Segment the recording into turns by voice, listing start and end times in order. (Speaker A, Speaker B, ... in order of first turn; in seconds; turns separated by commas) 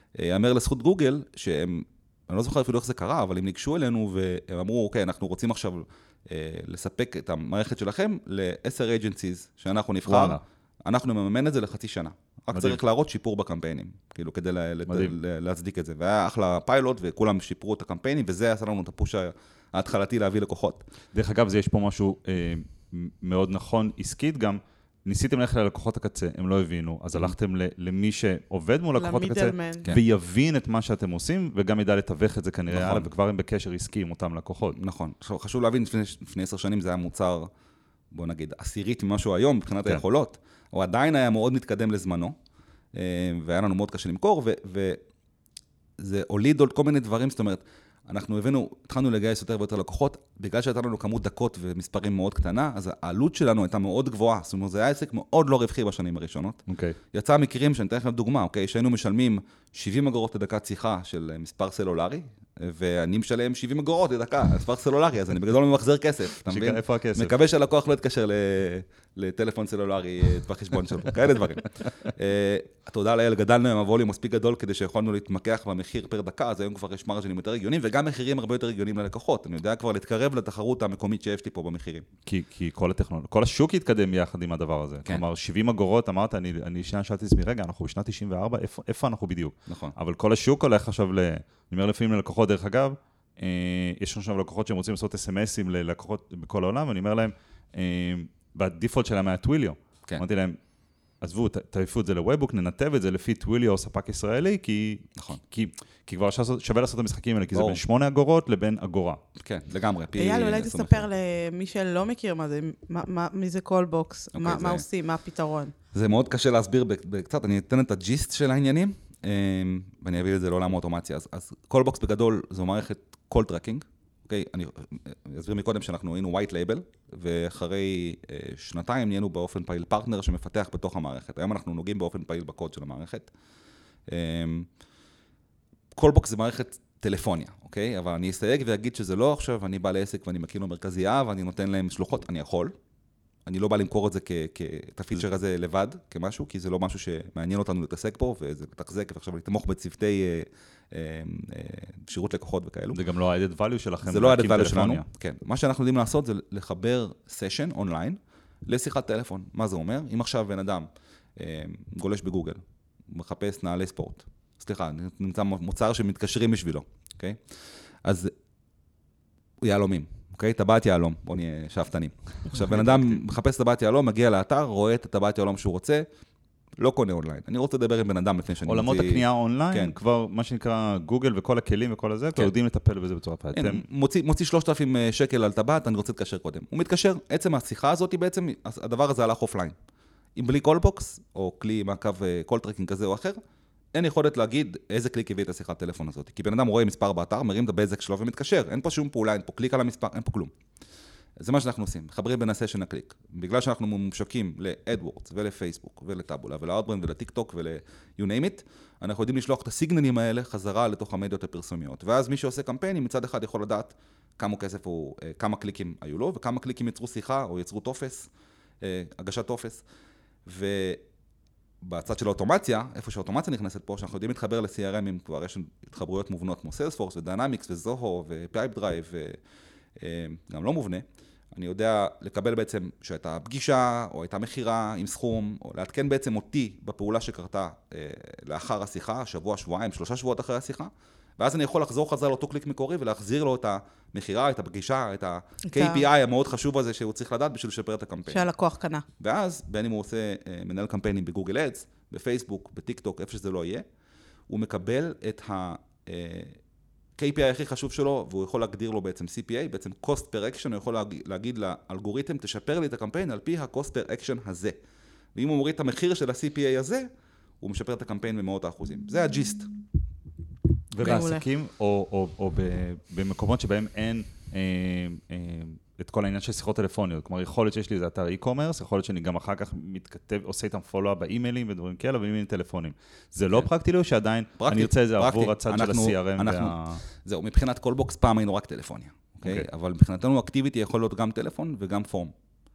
Speaker A: 0.1-20.8, Speaker B: 10.1-10.4, Speaker B: 12.5-12.8, Speaker B: 14.9-15.1, Speaker B: 21.1-34.8, Speaker C: 28.9-29.9, Speaker A: 32.7-33.1, Speaker A: 34.8-37.5, Speaker A: 38.1-42.3, Speaker A: 42.9-45.0, Speaker A: 46.0-82.0, Speaker B: 56.7-57.0, Speaker B: 66.5-67.3, Speaker B: 82.2-100.6, Speaker A: 89.7-89.9, Speaker B: 101.2-109.2, Speaker A: 107.5-107.8, Speaker A: 109.4-111.1, Speaker C: 110.2-115.7, Speaker A: 114.3-114.8, Speaker A: 115.9-133.3, Speaker A: 134.1-134.7, Speaker A: 135.9-142.7, Speaker A: 143.4-153.0, Speaker B: 152.9-155.0, Speaker A: 154.0-167.4, Speaker A: 168.0-168.3, Speaker A: 169.6-176.1, Speaker B: 172.5-173.2, Speaker A: 176.8-179.9, Speaker B: 178.7-183.8, Speaker A: 183.5-189.7, Speaker A: 190.3-193.4, Speaker A: 193.9-200.5, Speaker A: 201.4-218.3, Speaker A: 218.8-219.8, Speaker A: 220.4-221.0, Speaker A: 221.8-229.4, Speaker A: 230.0-248.5, Speaker C: 245.7-246.0, Speaker C: 248.3-249.0, Speaker A: 249.2-253.8, Speaker A: 254.5-256.6, Speaker A: 257.2-264.8, Speaker A: 265.3-267.1, Speaker A: 267.6-269.7, Speaker B: 270.9-287.0, Speaker C: 271.0-271.4, Speaker A: 284.6-292.3